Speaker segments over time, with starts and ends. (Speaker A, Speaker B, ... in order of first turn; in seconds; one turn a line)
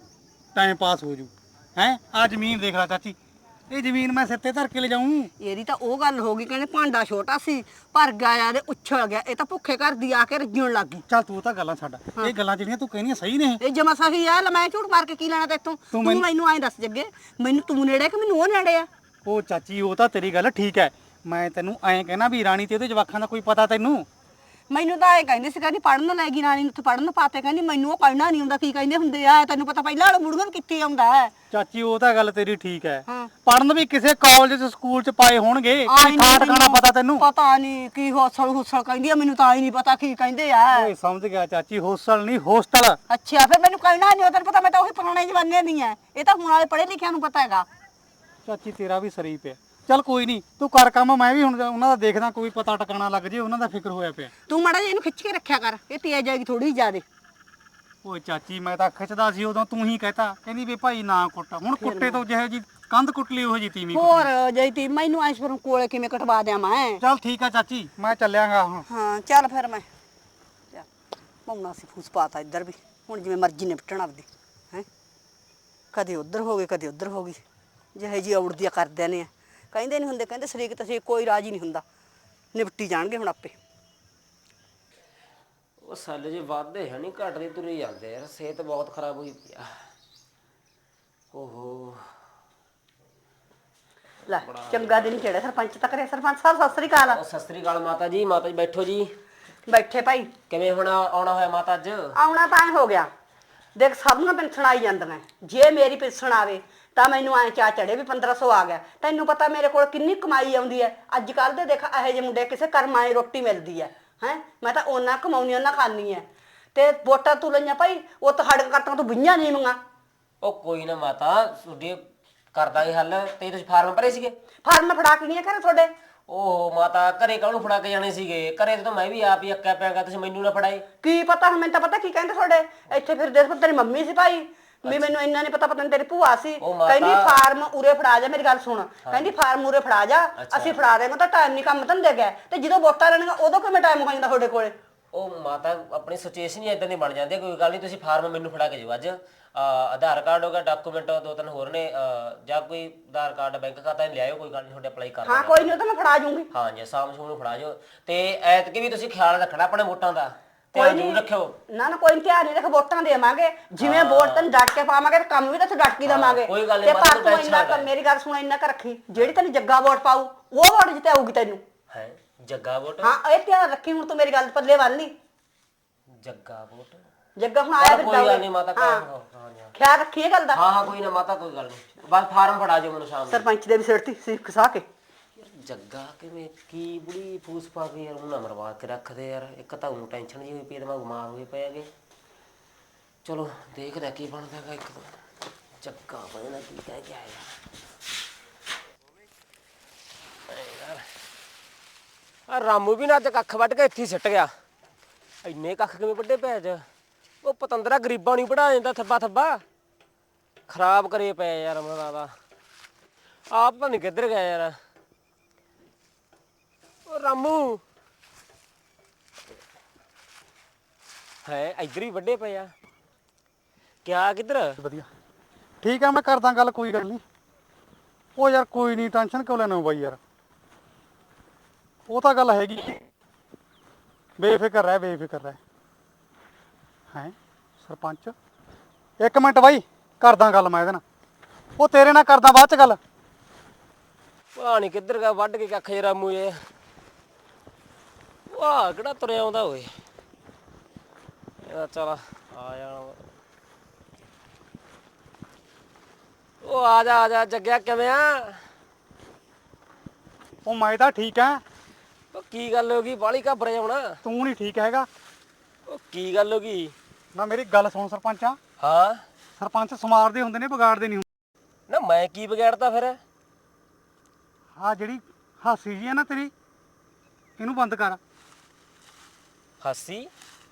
Speaker A: 0.6-3.2
Speaker A: 3.7-5.3
Speaker B: 5.4-11.0
Speaker A: 11.1-13.6
Speaker B: 13.6-18.9
Speaker A: 15.9-16.3
Speaker A: 19.2-24.1
Speaker B: 24.7-31.3
Speaker A: 31.5-37.2
Speaker B: 35.9-40.9
Speaker A: 40.7-43.0
Speaker B: 43.1-47.7
Speaker A: 48.5-54.3
Speaker B: 54.5-57.0
Speaker A: 58.0-64.3
Speaker B: 61.8-62.2
Speaker B: 63.9-67.0
Speaker A: 67.0-68.9
Speaker B: 68.9-69.9
Speaker B: 71.5-74.9
Speaker B: 75.9-77.4
Speaker B: 78.0-81.8
Speaker B: 82.5-83.6
Speaker C: 85.8-89.8
Speaker C: 91.3-92.0
Speaker B: 94.3-97.2
Speaker C: 94.4-95.0
Speaker C: 97.0-99.2
Speaker B: 99.7-100.3
Speaker C: 100.5-102.2
Speaker B: 102.2-103.1
Speaker B: 103.8-119.8
Speaker C: 120.4-122.0
Speaker C: 122.5-124.4
Speaker B: 124.6-125.9
Speaker C: 126.3-130.9
Speaker B: 131.0-144.8
Speaker C: 134.8-135.1
Speaker C: 136.6-137.4
Speaker C: 139.1-139.3
Speaker C: 140.4-140.8
Speaker C: 145.1-155.8
Speaker B: 155.2-156.5
Speaker C: 156.5-161.6
Speaker B: 160.8-171.6
Speaker C: 163.8-164.5
Speaker C: 166.0-167.9
Speaker C: 171.9-173.2
Speaker B: 173.0-175.1
Speaker C: 176.2-177.0
Speaker B: 177.4-179.1
Speaker C: 177.8-179.7
Speaker B: 179.7-180.6
Speaker C: 180.5-183.5
Speaker B: 183.3-184.9
Speaker C: 185.4-191.9
Speaker C: 193.2-195.2
Speaker C: 195.8-197.5
Speaker C: 200.5-201.0
Speaker C: 202.5-204.5
Speaker C: 205.4-206.8
Speaker C: 207.4-209.6
Speaker C: 210.7-212.3
Speaker C: 213.5-214.7
Speaker C: 217.1-217.8
Speaker C: 221.4-222.7
Speaker C: 224.1-224.8
Speaker A: 224.8-225.1
Speaker A: 225.8-227.2
Speaker A: 228.4-230.2
Speaker A: 232.1-233.0
Speaker A: 234.4-235.6
Speaker A: 237.1-238.3
Speaker A: 239.2-241.0
Speaker A: 241.8-243.0
Speaker C: 244.6-246.6
Speaker C: 248.5-249.9
Speaker C: 251.6-253.2
Speaker C: 256.6-258.6
Speaker A: 260.6-261.6
Speaker C: 262.3-264.1
Speaker A: 264.2-265.1
Speaker C: 265.9-266.9
Speaker A: 267.3-268.6
Speaker C: 268.8-269.2
Speaker A: 269.6-271.3
Speaker C: 271.9-273.2
Speaker A: 274.8-276.5
Speaker A: 277.6-278.2
Speaker C: 279.8-280.3